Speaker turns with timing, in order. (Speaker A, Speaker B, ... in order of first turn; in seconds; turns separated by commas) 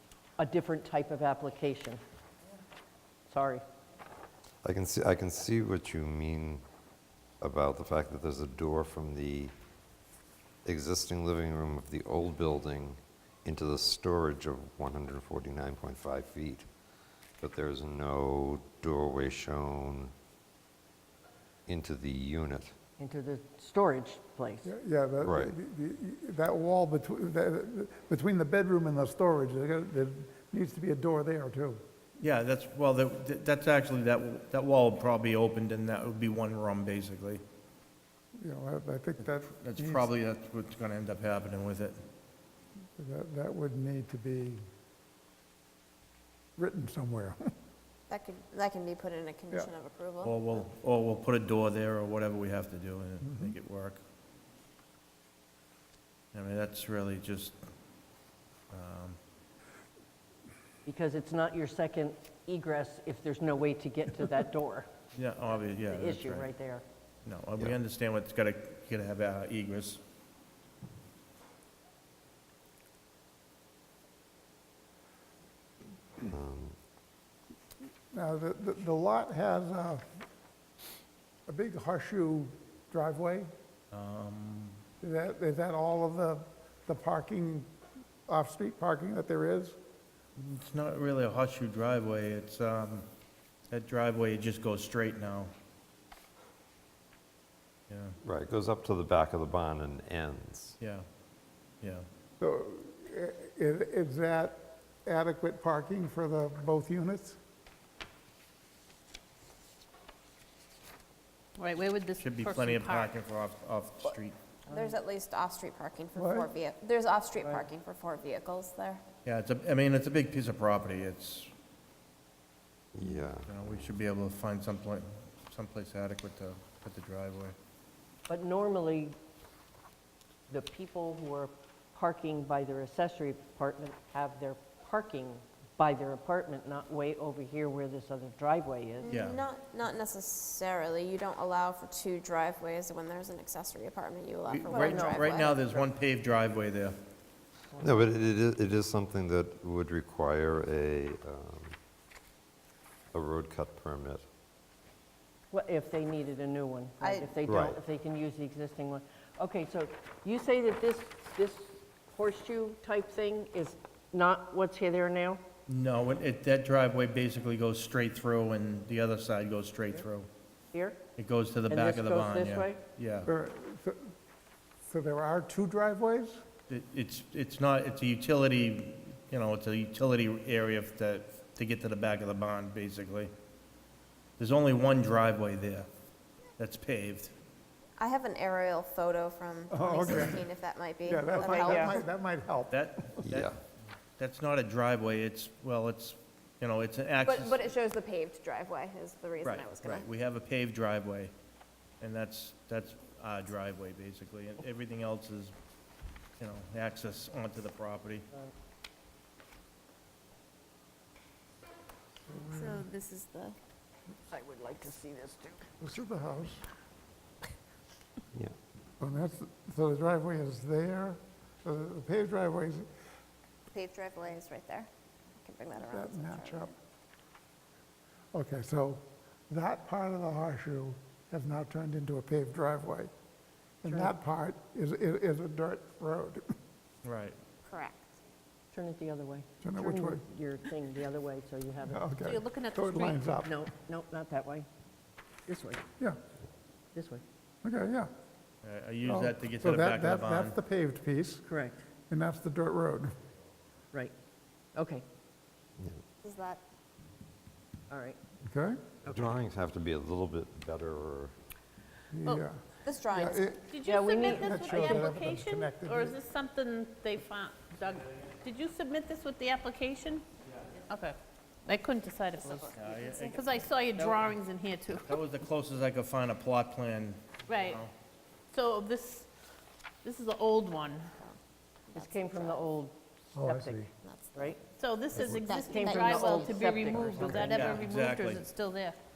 Speaker A: 0.4-2.0, Speaker A: 3.3-3.6, Speaker B: 4.6-6.6, Speaker B: 7.4-9.5, Speaker B: 10.6-16.7, Speaker B: 17.4-20.1, Speaker B: 21.7-22.8, Speaker A: 23.0-24.7, Speaker C: 24.6-31.8, Speaker B: 25.2-25.5, Speaker D: 32.2-37.4, Speaker C: 38.4-40.1, Speaker D: 39.5-42.0, Speaker C: 43.0-44.6, Speaker C: 46.6-47.4, Speaker E: 48.1-50.6, Speaker D: 50.2-54.0, Speaker C: 53.2-53.5, Speaker D: 56.3-57.5, Speaker D: 58.7-59.2, Speaker A: 60.9-64.9, Speaker D: 65.1-66.5, Speaker A: 65.8-66.8, Speaker D: 67.2-70.0, Speaker B: 76.2-76.8, Speaker C: 78.1-80.1, Speaker C: 81.5-83.5, Speaker D: 83.9-84.8, Speaker C: 85.0-87.7, Speaker C: 88.3-89.8, Speaker D: 90.3-93.0, Speaker D: 93.7-95.5, Speaker D: 97.9-98.2, Speaker B: 98.2-100.8, Speaker D: 100.8-101.0, Speaker D: 101.8-102.0, Speaker C: 102.4-107.4, Speaker F: 111.6-113.1, Speaker D: 112.2-114.3, Speaker E: 114.7-119.0, Speaker C: 116.1-116.5, Speaker D: 119.2-121.5, Speaker B: 122.9-123.6, Speaker D: 123.5-127.5, Speaker A: 128.3-129.2, Speaker A: 130.5-139.1, Speaker E: 139.0-145.7, Speaker D: 139.1-139.4, Speaker D: 144.5-147.0, Speaker A: 144.7-145.8, Speaker A: 147.7-148.1, Speaker B: 147.8-151.8, Speaker B: 153.1-154.2, Speaker A: 155.5-165.4, Speaker E: 157.0-157.3, Speaker B: 157.5-157.8, Speaker D: 165.7-170.3, Speaker A: 170.7-171.0, Speaker D: 171.2-173.3, Speaker A: 171.7-172.8, Speaker C: 173.3-174.1, Speaker C: 174.8-176.4, Speaker D: 176.7-183.3, Speaker D: 184.4-185.9, Speaker D: 186.6-187.3, Speaker E: 188.0-192.1, Speaker C: 189.7-190.5, Speaker C: 191.1-193.2, Speaker A: 191.4-192.0, Speaker D: 192.7-193.6, Speaker B: 193.2-193.6, Speaker D: 194.2-197.6, Speaker E: 197.2-200.1, Speaker D: 199.4-201.3, Speaker D: 202.0-205.5, Speaker D: 206.4-208.3, Speaker C: 212.3-212.9, Speaker E: 212.4-213.6, Speaker A: 214.3-215.7, Speaker C: 215.8-216.7, Speaker C: 219.0-222.9, Speaker E: 223.7-226.7, Speaker C: 225.8-226.7, Speaker C: 228.3-233.1, Speaker C: 233.8-236.5, Speaker A: 233.8-234.2, Speaker D: 237.0-237.4, Speaker E: 237.7-238.2, Speaker A: 238.7-242.0, Speaker C: 239.6-240.2, Speaker C: 241.9-243.5, Speaker F: 242.2-243.4, Speaker A: 243.4-244.7, Speaker A: 245.5-245.9, Speaker A: 246.9-247.2, Speaker C: 247.6-248.1, Speaker D: 248.6-250.6, Speaker C: 249.1-251.4, Speaker A: 251.5-251.8, Speaker C: 252.1-253.2, Speaker A: 254.8-255.0, Speaker E: 256.2-256.6, Speaker A: 257.9-258.2, Speaker C: 258.5-258.8, Speaker B: 259.1-261.3, Speaker C: 262.1-266.2, Speaker E: 262.8-263.6, Speaker F: 263.7-270.2, Speaker A: 263.8-265.1, Speaker F: 270.9-275.1, Speaker E: 272.4-273.4, Speaker D: 272.8-273.4, Speaker D: 273.9-274.3, Speaker D: 274.9-277.9, Speaker F: 277.5-277.8, Speaker F: 278.5-279.3, Speaker F: 280.0-281.1, Speaker E: 281.9-282.7, Speaker A: 281.9-284.6, Speaker C: 283.4-283.9, Speaker E: 284.0-284.6, Speaker F: 284.8-289.0, Speaker E: 285.1-286.6, Speaker A: 285.6-287.8, Speaker C: 286.6-287.6, Speaker D: 287.3-288.4